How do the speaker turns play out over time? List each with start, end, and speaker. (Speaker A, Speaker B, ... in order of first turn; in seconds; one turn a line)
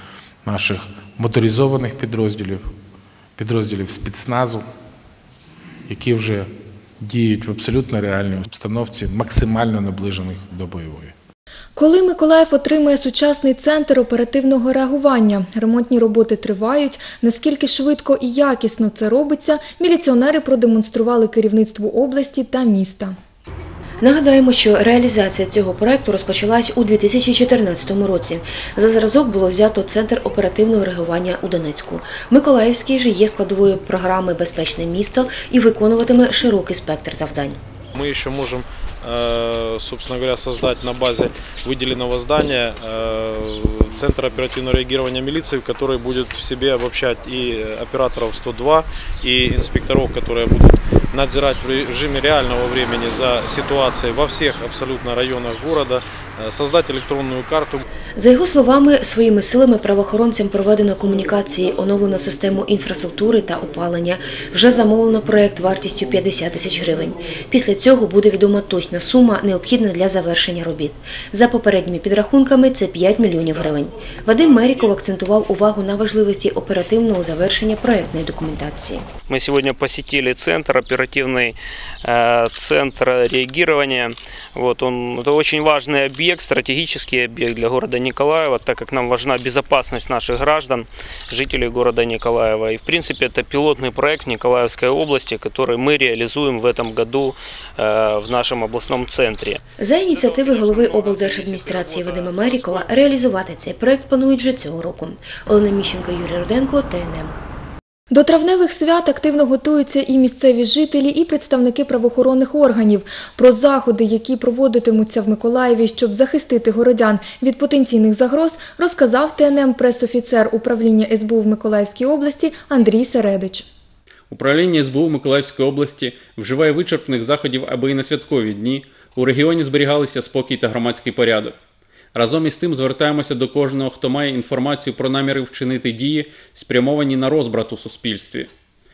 Speaker A: 0.4-2.7
Speaker A: 3.4-4.7
Speaker A: 5.9-6.5
Speaker A: 7.0-11.1
Speaker B: 11.8-23.2
Speaker C: 24.0-37.6
Speaker D: 38.0-57.8
Speaker C: 58.2-79.1
Speaker E: 79.3-99.6
Speaker C: 99.8-107.4
Speaker D: 100.1-103.1
Speaker B: 108.1-123.7
Speaker F: 124.3-131.6
Speaker F: 132.1-138.5